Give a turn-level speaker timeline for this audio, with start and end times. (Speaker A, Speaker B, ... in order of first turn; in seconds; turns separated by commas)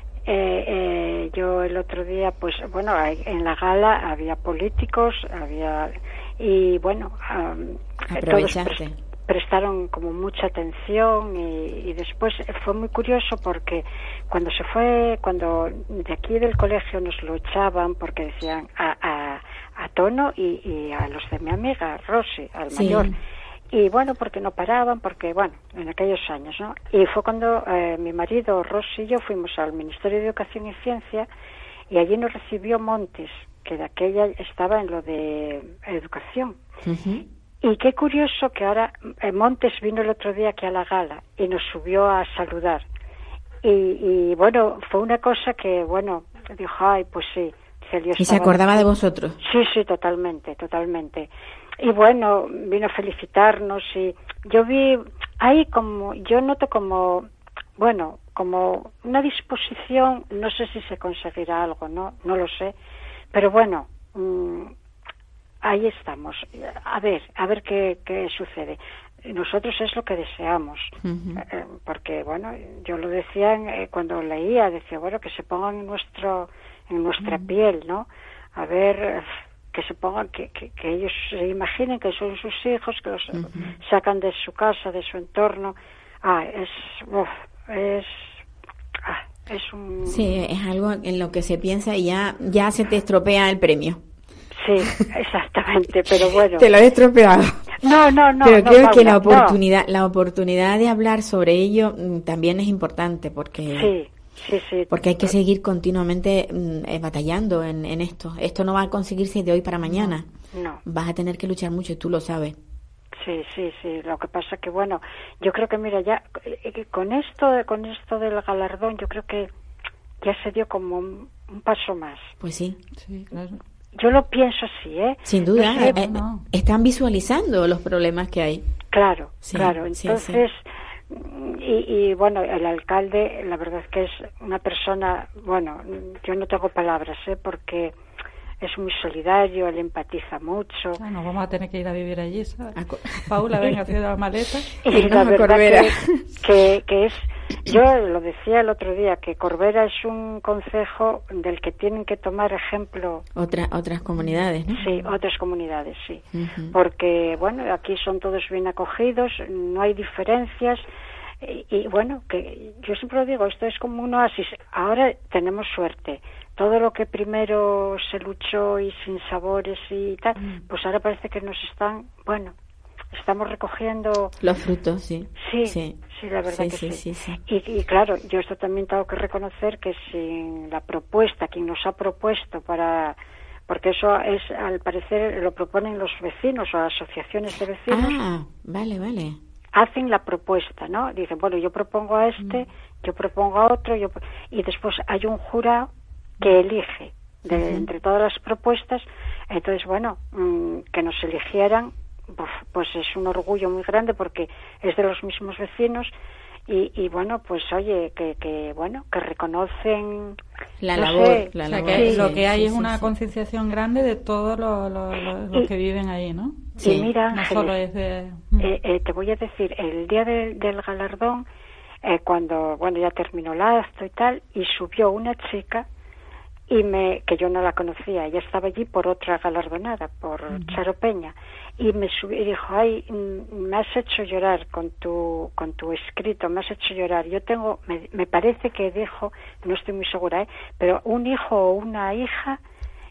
Speaker A: 0.3-23.2, Speaker B: 8.1-9.0, Speaker B: 22.7-23.1, Speaker A: 23.7-31.3, Speaker A: 31.9-36.6, Speaker B: 36.9-37.2, Speaker A: 37.6-42.9, Speaker A: 43.6-48.9, Speaker B: 48.2-49.4, Speaker A: 49.4-51.3, Speaker A: 51.8-62.8, Speaker A: 63.3-64.7, Speaker A: 65.6-88.4, Speaker B: 71.0-71.4, Speaker B: 77.2-77.5, Speaker B: 83.3-83.7, Speaker A: 89.0-90.2, Speaker B: 90.1-94.0, Speaker A: 94.6-96.7, Speaker B: 96.2-103.9, Speaker A: 97.8-99.6, Speaker A: 103.7-105.3, Speaker B: 104.9-110.3, Speaker C: 109.9-110.2, Speaker A: 110.5-110.8, Speaker B: 110.8-112.6, Speaker A: 113.2-119.5, Speaker A: 120.2-122.3, Speaker B: 122.4-122.8, Speaker C: 123.0-123.6, Speaker A: 124.0-125.9, Speaker B: 125.3-128.6, Speaker C: 125.6-126.5, Speaker A: 128.9-138.0, Speaker B: 129.4-130.4, Speaker A: 138.6-141.0, Speaker C: 141.0-144.8, Speaker B: 142.8-143.8, Speaker A: 144.8-153.2, Speaker B: 144.8-146.2, Speaker B: 153.4-154.8, Speaker A: 154.8-160.8, Speaker B: 156.3-156.8, Speaker A: 161.4-172.5, Speaker A: 173.1-174.3, Speaker B: 174.4-177.4, Speaker A: 175.4-183.2, Speaker A: 183.7-188.2, Speaker B: 187.9-189.4, Speaker A: 189.7-195.9, Speaker A: 196.4-206.1, Speaker B: 197.5-197.9, Speaker A: 206.7-210.4, Speaker B: 210.8-213.1, Speaker A: 211.0-212.3, Speaker C: 211.6-216.8, Speaker B: 216.8-217.1, Speaker A: 216.8-217.8, Speaker C: 217.3-218.7, Speaker A: 218.6-221.5, Speaker A: 222.0-225.9, Speaker A: 226.7-242.6, Speaker C: 230.5-230.8